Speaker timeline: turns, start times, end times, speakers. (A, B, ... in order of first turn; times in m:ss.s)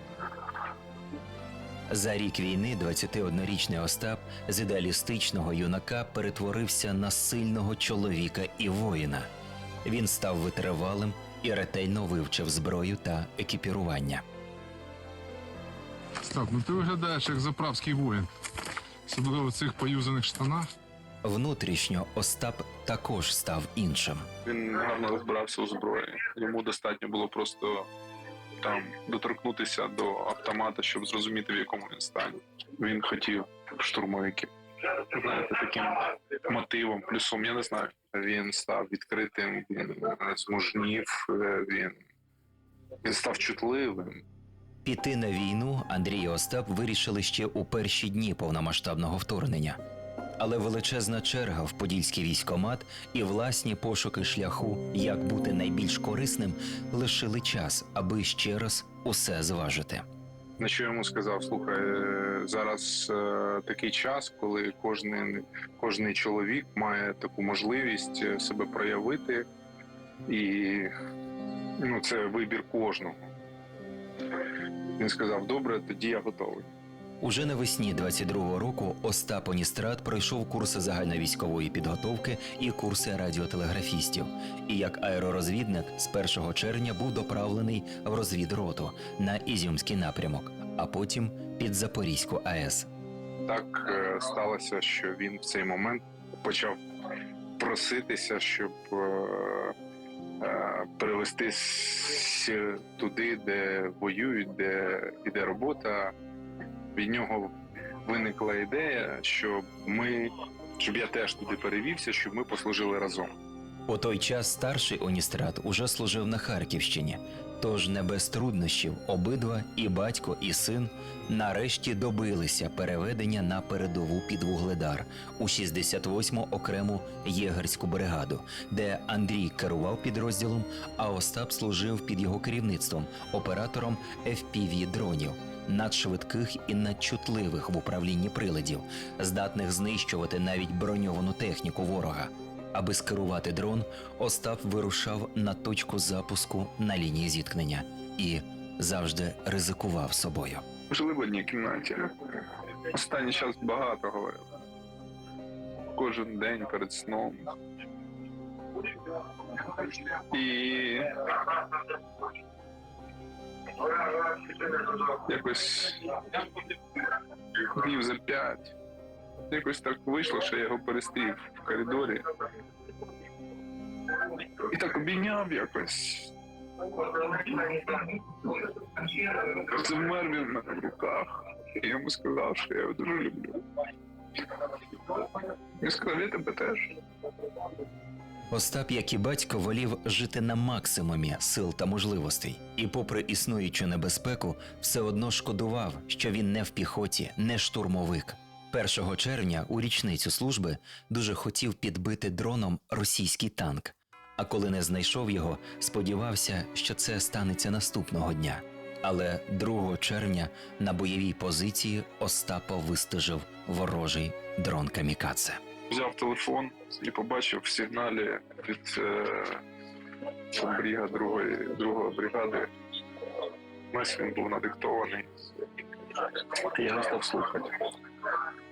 0:01.9-0:09.3 A
0:09.8-0:14.2 A
0:16.3-0:18.3 B
0:19.1-0:20.6 B
0:21.2-0:24.3 A
0:24.4-0:27.9 C
0:28.6-0:42.0 C
0:43.0-0:44.2 C
0:44.8-0:49.8 A
0:50.4-1:00.1 A
1:00.6-1:09.5 C
1:10.3-1:10.9 C
1:11.8-1:13.3 C
1:15.0-1:16.7 C
1:17.2-1:32.9 A
1:33.5-1:36.8 C
1:37.6-1:39.8 C
1:40.4-1:46.1 C
1:47.0-1:47.5 C
1:48.0-1:53.3 C
1:53.9-2:30.7 A
2:30.9-2:34.4 C
2:35.9-2:37.5 C
2:39.5-2:41.8 C
2:43.8-2:47.0 C
2:47.6-2:48.7 C
2:49.5-2:52.2 C
2:54.2-2:56.3 C
2:56.9-3:03.6 C
3:05.1-3:06.8 C
3:08.5-3:35.6 A
3:35.9-3:39.6 C
3:40.5-3:42.7 C
3:43.9-3:45.3 C
3:46.1-3:47.9 C